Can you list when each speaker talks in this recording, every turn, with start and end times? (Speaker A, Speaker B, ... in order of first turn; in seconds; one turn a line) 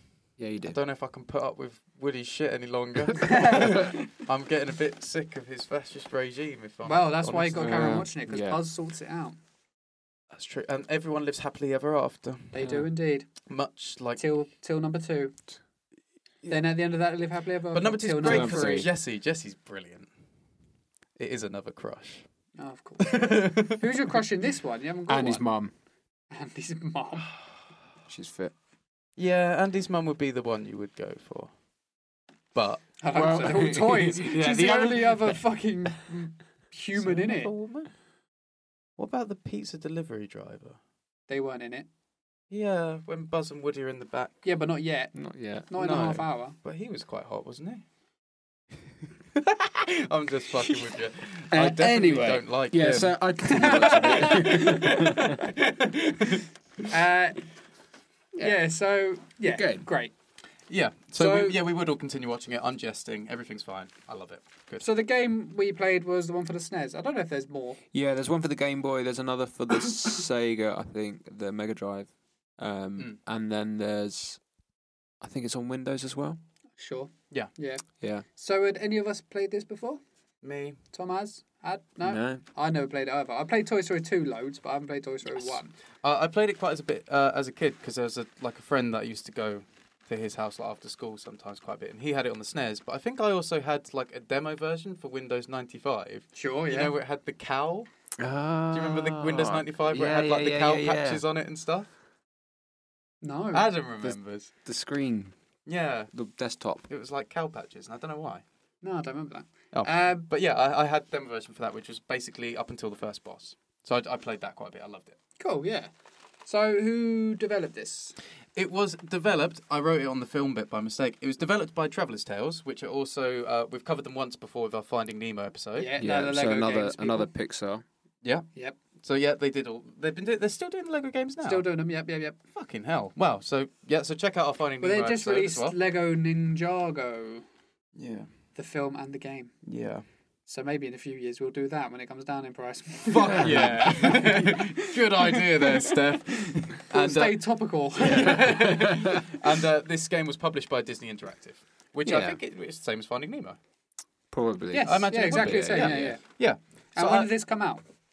Speaker A: 0.4-0.8
Speaker B: 0.6-8.0
Speaker C: 3.2-4.0
Speaker C: 6.8-9.4
Speaker A: 7.6-8.6
Speaker B: 10.3-12.6
Speaker C: 12.5-13.3
Speaker A: 12.6-12.9
Speaker B: 13.5-14.2
Speaker C: 14.2-15.3
Speaker C: 16.5-18.9
Speaker B: 17.7-20.1
Speaker A: 18.2-18.9
Speaker B: 21.2-22.3
Speaker C: 22.6-25.5
Speaker B: 23.0-23.9
Speaker A: 25.1-25.7
Speaker C: 26.3-27.3
Speaker A: 28.1-28.5
Speaker B: 29.2-31.5
Speaker B: 32.5-32.9
Speaker C: 33.0-37.5
Speaker A: 33.1-35.3
Speaker B: 34.3-35.0
Speaker B: 37.0-37.9
Speaker B: 39.0-40.8
Speaker C: 41.3-41.9
Speaker B: 42.5-44.5
Speaker C: 44.4-45.1
Speaker A: 45.1-45.7
Speaker C: 45.7-46.6
Speaker B: 45.8-47.9
Speaker B: 48.8-56.5
Speaker A: 51.5-55.4
Speaker C: 53.5-55.4
Speaker C: 56.9-57.4
Speaker C: 58.4-60.1
Speaker A: 59.5-59.9
Speaker B: 60.7-64.8
Speaker C: 61.2-61.6
Speaker C: 64.8-67.8
Speaker A: 67.9-74.4
Speaker A: 75.2-76.4
Speaker C: 76.8-77.8
Speaker C: 78.3-80.0
Speaker B: 80.4-80.8
Speaker C: 80.9-85.8
Speaker A: 82.0-82.4
Speaker B: 86.0-97.9
Speaker C: 96.3-96.9
Speaker A: 98.2-101.2
Speaker B: 98.7-101.9
Speaker C: 103.2-103.7
Speaker B: 103.5-104.5
Speaker A: 104.0-105.3
Speaker B: 105.7-106.1
Speaker A: 106.1-106.8
Speaker B: 106.9-108.4
Speaker C: 108.8-110.3
Speaker B: 109.7-115.2
Speaker C: 115.4-115.9
Speaker C: 116.5-118.2
Speaker B: 118.5-125.9
Speaker C: 125.8-127.3
Speaker A: 126.0-127.8
Speaker B: 129.0-131.7
Speaker C: 131.4-132.4
Speaker B: 132.5-135.8
Speaker C: 134.8-137.4
Speaker B: 137.9-138.3
Speaker C: 138.6-139.5
Speaker B: 139.7-140.0
Speaker C: 140.5-146.0
Speaker B: 143.1-147.4
Speaker A: 143.3-144.3
Speaker C: 146.9-148.9
Speaker B: 148.0-153.6
Speaker A: 148.5-149.2
Speaker A: 152.1-152.4
Speaker A: 154.3-156.2
Speaker C: 154.7-156.2
Speaker B: 154.8-157.3
Speaker C: 156.9-157.8